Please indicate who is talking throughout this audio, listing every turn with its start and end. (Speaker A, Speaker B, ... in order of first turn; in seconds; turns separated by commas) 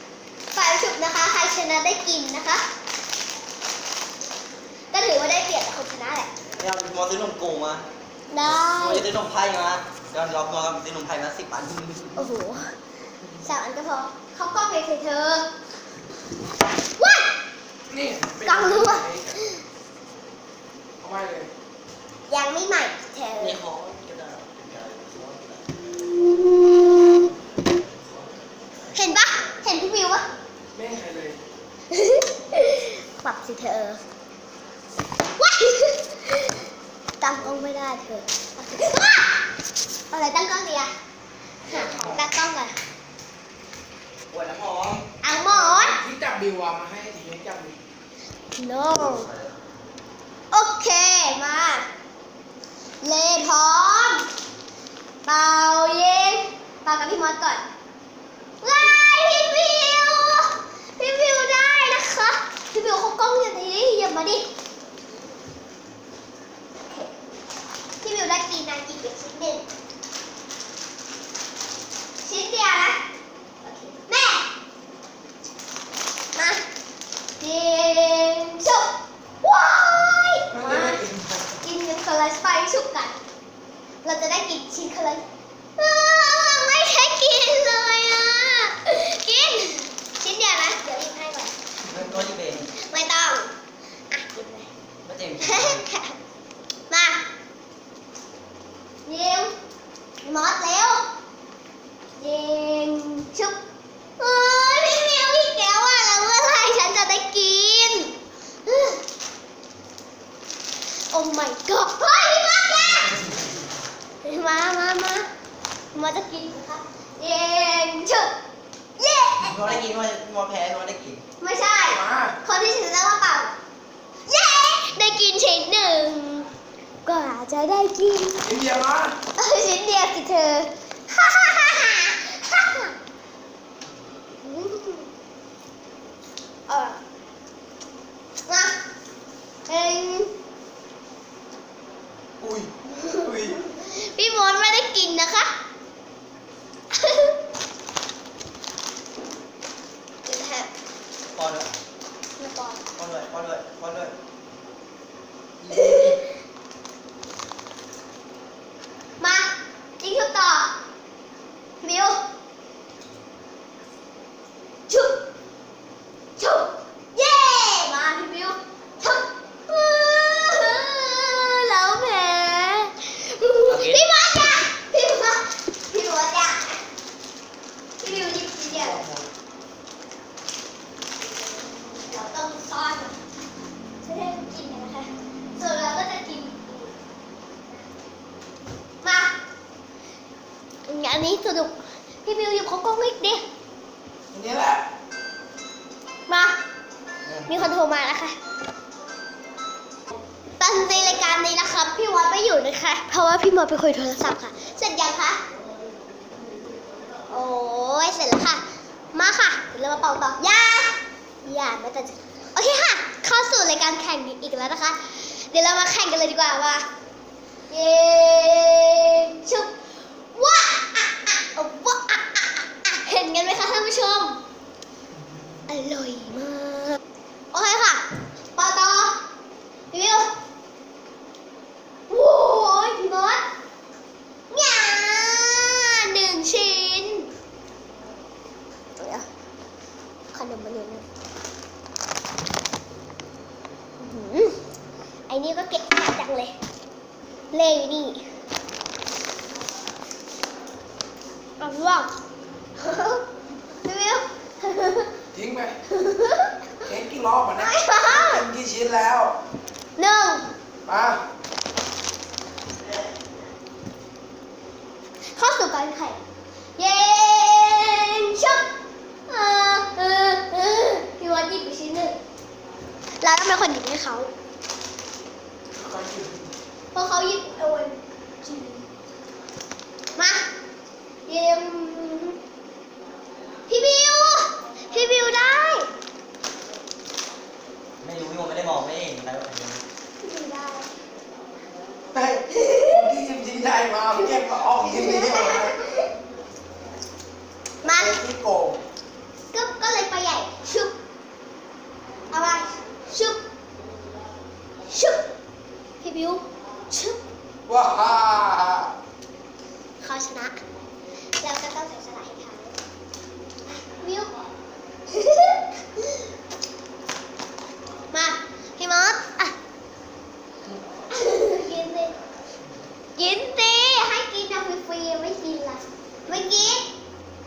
Speaker A: 0.5-2.6, Speaker A: 4.9-6.3, Speaker B: 6.6-7.8, Speaker A: 8.3-9.1, Speaker B: 8.4-12.2, Speaker A: 12.2-12.8, Speaker A: 13.4-15.5, Speaker A: 17.0-17.3, Speaker C: 17.9-19.4, Speaker A: 18.4-19.6, Speaker C: 21.0-21.5, Speaker A: 22.3-23.6, Speaker B: 23.4-25.9, Speaker A: 26.3-27.2, Speaker A: 28.9-30.2, Speaker C: 30.7-31.4, Speaker A: 31.9-34.0, Speaker A: 35.4-36.5, Speaker A: 37.2-39.4, Speaker A: 40.1-40.9, Speaker C: 41.6-42.3, Speaker A: 41.6-42.7, Speaker B: 44.3-45.0, Speaker A: 45.2-46.0, Speaker C: 45.5-47.8, Speaker A: 48.5-49.3, Speaker B: 48.9-49.5, Speaker A: 50.5-51.9, Speaker A: 53.0-54.3, Speaker A: 55.2-57.6, Speaker A: 58.6-64.5, Speaker A: 68.0-69.7, Speaker A: 72.2-73.0, Speaker A: 73.6-74.5, Speaker A: 76.3-76.6, Speaker A: 77.4-81.0, Speaker C: 80.5-81.4, Speaker A: 81.6-83.2, Speaker A: 84.0-85.2, Speaker A: 85.8-91.5, Speaker B: 91.8-92.7, Speaker A: 92.7-93.5, Speaker A: 94.1-94.7, Speaker B: 95.0-95.8, Speaker A: 95.4-96.2, Speaker A: 96.9-97.2, Speaker A: 99.0-99.5, Speaker A: 100.2-101.1, Speaker A: 102.2-103.6, Speaker A: 104.2-109.0, Speaker A: 111.1-113.3, Speaker A: 114.2-115.3, Speaker A: 115.9-118.3, Speaker A: 119.0-119.6, Speaker B: 119.4-121.2, Speaker A: 121.4-123.5, Speaker C: 121.8-122.3, Speaker A: 124.3-126.5, Speaker A: 127.0-128.5, Speaker C: 128.4-129.2, Speaker A: 129.4-132.9, Speaker A: 134.4-135.1, Speaker A: 136.7-137.0, Speaker A: 138.5-138.7, Speaker A: 139.7-140.3, Speaker B: 142.4-143.6, Speaker A: 143.0-145.5, Speaker A: 146.9-147.3, Speaker A: 150.2-150.7, Speaker B: 151.3-151.7, Speaker A: 152.4-152.8, Speaker B: 152.9-154.1, Speaker C: 155.6-156.1, Speaker A: 155.7-156.2, Speaker A: 159.2-160.8, Speaker A: 161.8-162.2, Speaker A: 164.9-165.2, Speaker A: 166.4-176.8, Speaker B: 173.6-174.0, Speaker A: 178.0-179.1, Speaker C: 178.8-179.2, Speaker A: 181.6-183.2, Speaker A: 184.0-186.9, Speaker A: 189.0-189.3, Speaker A: 190.9-193.4, Speaker C: 194.3-194.9, Speaker A: 196.3-196.6, Speaker A: 197.4-198.3, Speaker A: 200.6-205.4, Speaker A: 207.3-216.9, Speaker A: 217.7-219.8, Speaker A: 220.3-224.4, Speaker A: 225.7-227.0, Speaker A: 227.5-229.2, Speaker A: 229.9-230.3, Speaker A: 232.1-233.4, Speaker A: 234.5-237.3, Speaker A: 239.0-239.3, Speaker A: 240.3-241.0, Speaker A: 244.0-244.6, Speaker A: 245.3-246.6, Speaker A: 247.5-248.3, Speaker A: 251.6-252.1, Speaker A: 252.8-253.2, Speaker A: 253.8-255.1, Speaker C: 255.3-255.7, Speaker A: 255.9-256.6, Speaker C: 256.8-259.4, Speaker A: 257.6-258.4, Speaker A: 260.0-260.5, Speaker C: 260.9-261.2, Speaker A: 265.3-266.2, Speaker A: 266.8-268.7, Speaker A: 269.3-272.2, Speaker A: 273.2-274.3, Speaker C: 275.7-276.5, Speaker A: 276.9-278.9, Speaker A: 280.1-280.5, Speaker A: 281.2-282.4, Speaker A: 283.7-285.9, Speaker B: 288.0-289.8, Speaker A: 290.2-290.9, Speaker C: 292.1-295.8, Speaker A: 292.5-293.0, Speaker A: 294.8-296.1, Speaker A: 297.8-298.2, Speaker C: 297.9-298.8, Speaker A: 299.5-300.9, Speaker A: 302.3-303.4, Speaker A: 304.9-305.3, Speaker A: 306.0-307.2, Speaker C: 307.7-308.9, Speaker A: 310.0-310.6, Speaker A: 311.4-312.8, Speaker A: 313.7-314.4, Speaker A: 315.1-316.2, Speaker A: 318.1-319.5, Speaker A: 321.1-322.1, Speaker A: 323.1-326.9